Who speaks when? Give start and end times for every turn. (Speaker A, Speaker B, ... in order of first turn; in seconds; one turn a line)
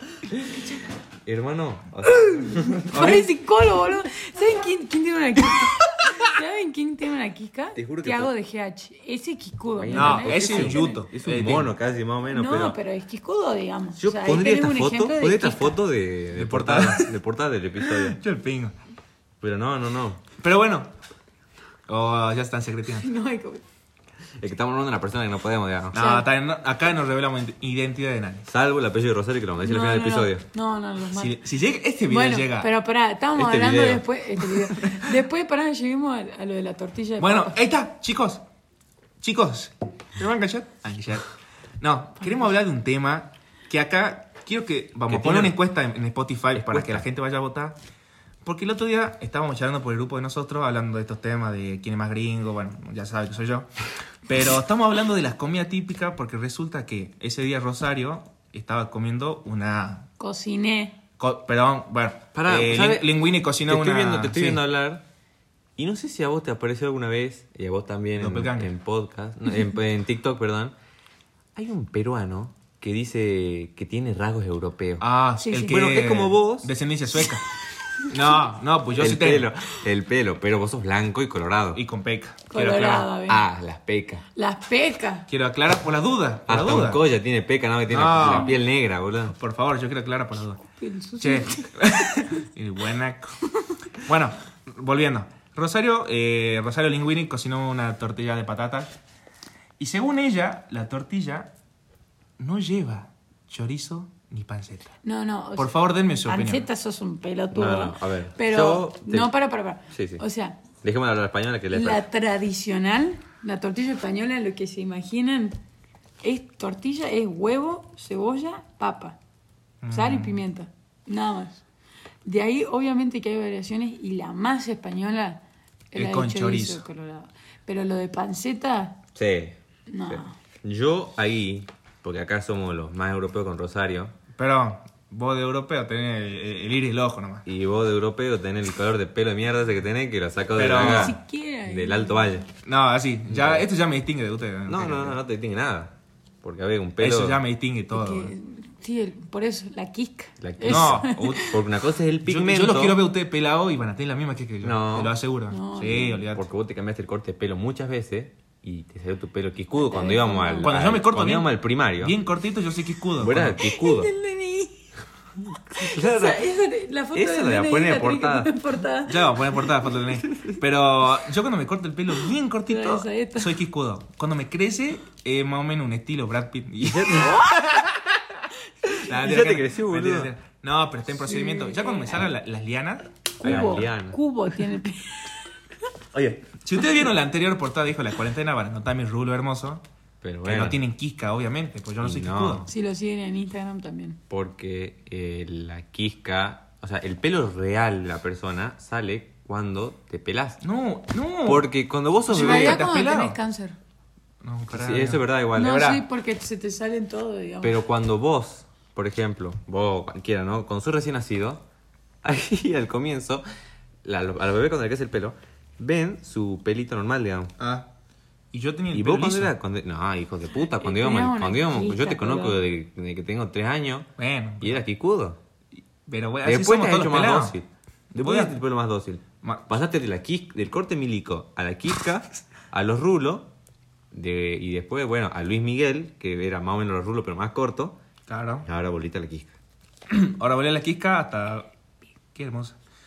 Speaker A: 1.2-3.1
Speaker B: 2.8-11.0
Speaker C: 2.9-3.3
Speaker A: 7.8-8.3
Speaker A: 9.8-12.8
Speaker C: 9.9-11.7
Speaker B: 12.3-15.8
Speaker A: 14.0-18.2
Speaker C: 16.4-17.1
Speaker C: 17.8-18.7
Speaker A: 19.4-20.2
Speaker C: 20.4-20.9
Speaker C: 21.9-23.1
Speaker B: 23.0-23.6
Speaker A: 24.4-26.0
Speaker C: 25.9-28.5
Speaker B: 25.9-26.3
Speaker A: 28.5-30.4
Speaker B: 29.6-31.4
Speaker C: 31.1-32.7
Speaker B: 32.1-37.6
Speaker A: 33.4-34.1
Speaker C: 37.2-38.4
Speaker C: 39.2-41.3
Speaker C: 41.8-47.8
Speaker A: 45.1-45.6
Speaker A: 46.5-47.0
Speaker C: 48.4-53.7
Speaker C: 54.3-60.1
Speaker B: 60.2-61.0
Speaker C: 61.2-64.6
Speaker A: 62.4-65.0
Speaker A: 65.8-70.8
Speaker C: 68.2-68.7
Speaker A: 71.5-75.0
Speaker C: 75.0-77.4
Speaker B: 75.4-75.9
Speaker A: 75.7-76.7
Speaker C: 78.1-79.5
Speaker A: 79.0-81.8
Speaker C: 81.7-83.1
Speaker B: 82.5-83.5
Speaker A: 83.3-84.2
Speaker B: 84.3-85.3
Speaker C: 85.3-87.0
Speaker A: 86.5-89.3
Speaker C: 87.9-88.6
Speaker C: 89.3-90.6
Speaker B: 90.6-92.1
Speaker C: 91.2-93.4
Speaker C: 94.0-98.9
Speaker C: 99.8-101.5
Speaker C: 102.4-105.0
Speaker B: 105.0-110.6
Speaker C: 105.6-106.7
Speaker A: 107.5-109.3
Speaker A: 109.9-110.2
Speaker A: 110.8-112.0
Speaker B: 111.7-115.6
Speaker B: 116.2-119.2
Speaker C: 119.8-120.4
Speaker B: 119.9-121.6
Speaker B: 122.2-129.0
Speaker C: 126.0-126.8
Speaker A: 129.2-129.6
Speaker B: 129.9-130.4
Speaker A: 130.1-134.2
Speaker C: 134.4-137.4
Speaker A: 137.5-142.5
Speaker C: 140.6-141.2
Speaker B: 140.8-142.4
Speaker C: 142.7-145.2
Speaker A: 143.3-143.7
Speaker A: 144.7-147.4
Speaker C: 147.0-148.3
Speaker B: 147.9-151.6
Speaker A: 150.4-153.1
Speaker C: 150.7-151.6
Speaker C: 152.2-156.4
Speaker A: 154.6-155.2
Speaker B: 155.5-156.2
Speaker A: 156.3-162.2
Speaker B: 159.7-160.7
Speaker C: 160.6-163.6
Speaker A: 163.2-164.1
Speaker B: 163.6-164.9
Speaker A: 165.7-166.5
Speaker B: 165.8-169.4
Speaker A: 167.1-168.6
Speaker C: 169.1-177.9
Speaker B: 172.7-173.6
Speaker A: 176.8-177.5
Speaker C: 178.9-183.7
Speaker A: 179.1-180.3
Speaker B: 181.2-182.3
Speaker B: 183.4-185.4
Speaker A: 183.4-184.2
Speaker A: 186.1-186.4
Speaker C: 186.6-189.8
Speaker A: 190.2-190.8
Speaker C: 190.4-192.7
Speaker A: 192.0-192.7
Speaker B: 192.7-194.2
Speaker A: 194.3-200.6
Speaker C: 200.6-201.7
Speaker A: 201.4-202.8
Speaker C: 202.3-203.4
Speaker B: 202.3-203.8
Speaker C: 204.4-206.0
Speaker A: 204.7-205.9
Speaker B: 205.6-207.8
Speaker A: 207.6-211.6
Speaker A: 212.2-213.4
Speaker A: 214.0-217.5
Speaker C: 217.6-217.9
Speaker C: 218.5-219.5
Speaker A: 218.9-224.1
Speaker B: 220.7-222.6
Speaker C: 224.2-224.8
Speaker A: 224.6-225.4
Speaker C: 226.1-227.6
Speaker A: 226.4-233.5
Speaker C: 228.2-228.6
Speaker C: 229.4-229.7
Speaker A: 234.1-238.0
Speaker C: 238.3-238.7
Speaker A: 238.7-239.5
Speaker C: 240.1-241.7
Speaker C: 242.3-242.8